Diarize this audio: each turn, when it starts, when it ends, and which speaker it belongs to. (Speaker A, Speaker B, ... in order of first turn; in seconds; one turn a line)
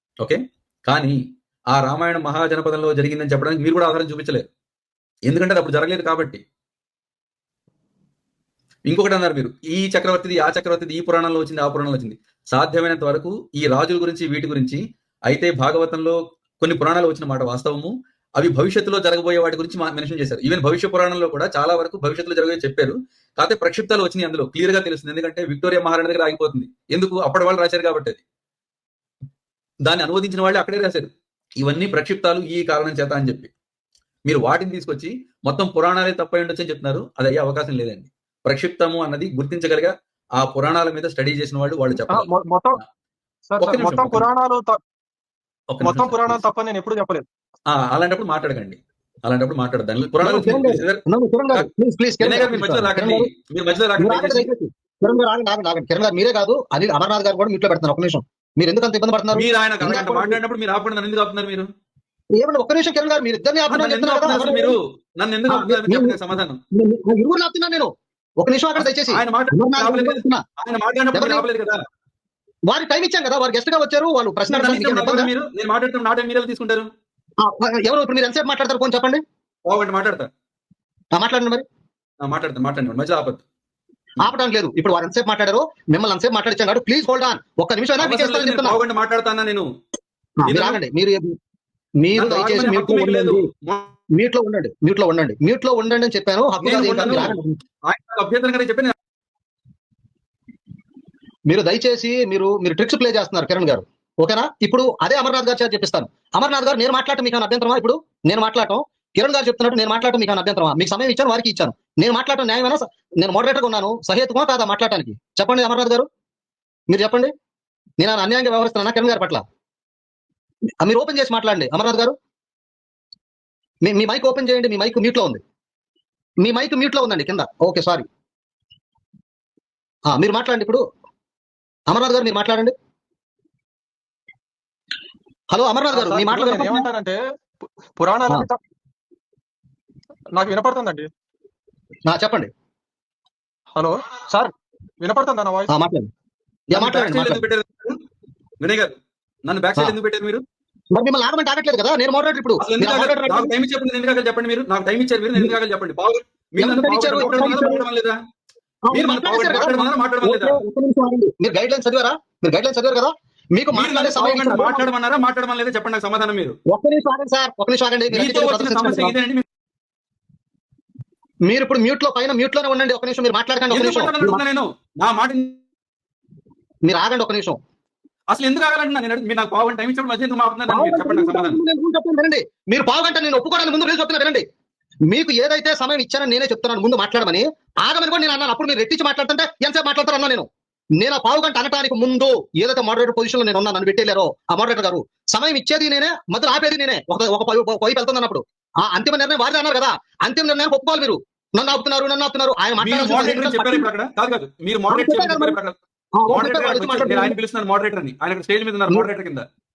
Speaker A: 0.2-1.2
Speaker A: 1.7-4.5
Speaker A: 5.3-6.4
Speaker A: 8.9-28.2
Speaker A: 29.9-31.1
Speaker A: 31.6-33.5
Speaker A: 34.3-42.3
Speaker B: 42.1-42.8
Speaker B: 43.5-44.8
Speaker A: 43.6-44.3
Speaker A: 45.7-46.4
Speaker B: 45.8-47.2
Speaker A: 47.7-51.0
Speaker C: 50.2-53.3
Speaker A: 52.2-54.5
Speaker C: 54.0-60.4
Speaker A: 59.3-61.7
Speaker C: 62.4-64.8
Speaker A: 63.7-66.6
Speaker C: 65.5-70.4
Speaker A: 68.8-71.8
Speaker C: 71.1-71.5
Speaker C: 72.7-75.3
Speaker A: 74.5-76.9
Speaker C: 77.4-79.2
Speaker A: 79.7-80.3
Speaker C: 81.1-81.7
Speaker A: 82.2-83.4
Speaker C: 84.2-88.8
Speaker A: 88.0-89.7
Speaker C: 90.4-91.3
Speaker A: 90.5-90.8
Speaker C: 92.0-93.5
Speaker A: 92.2-93.9
Speaker C: 94.1-97.6
Speaker A: 96.6-97.4
Speaker A: 97.9-98.9
Speaker C: 101.5-116.1
Speaker C: 116.9-117.3
Speaker C: 118.0-119.4
Speaker C: 120.8-122.2
Speaker C: 123.8-125.4
Speaker C: 126.4-128.0
Speaker C: 130.1-130.8
Speaker C: 131.9-132.7
Speaker C: 135.5-136.9
Speaker B: 135.9-137.2
Speaker B: 138.0-138.6
Speaker B: 140.3-141.1
Speaker C: 142.1-142.5
Speaker B: 143.8-145.7
Speaker C: 145.7-146.1
Speaker C: 146.7-147.4
Speaker A: 146.7-148.0
Speaker A: 148.6-150.4
Speaker C: 150.9-153.5
Speaker A: 152.6-158.2
Speaker C: 156.6-157.8
Speaker C: 158.8-164.8
Speaker A: 158.9-160.6
Speaker A: 163.7-166.6
Speaker C: 166.7-169.1
Speaker A: 168.1-169.4
Speaker C: 171.5-174.4
Speaker A: 173.7-175.6
Speaker C: 176.8-177.6
Speaker A: 178.3-181.6
Speaker C: 180.7-184.4
Speaker C: 185.1-203.9
Speaker A: 202.8-205.8
Speaker C: 204.9-205.6
Speaker C: 206.2-207.3
Speaker A: 206.3-209.4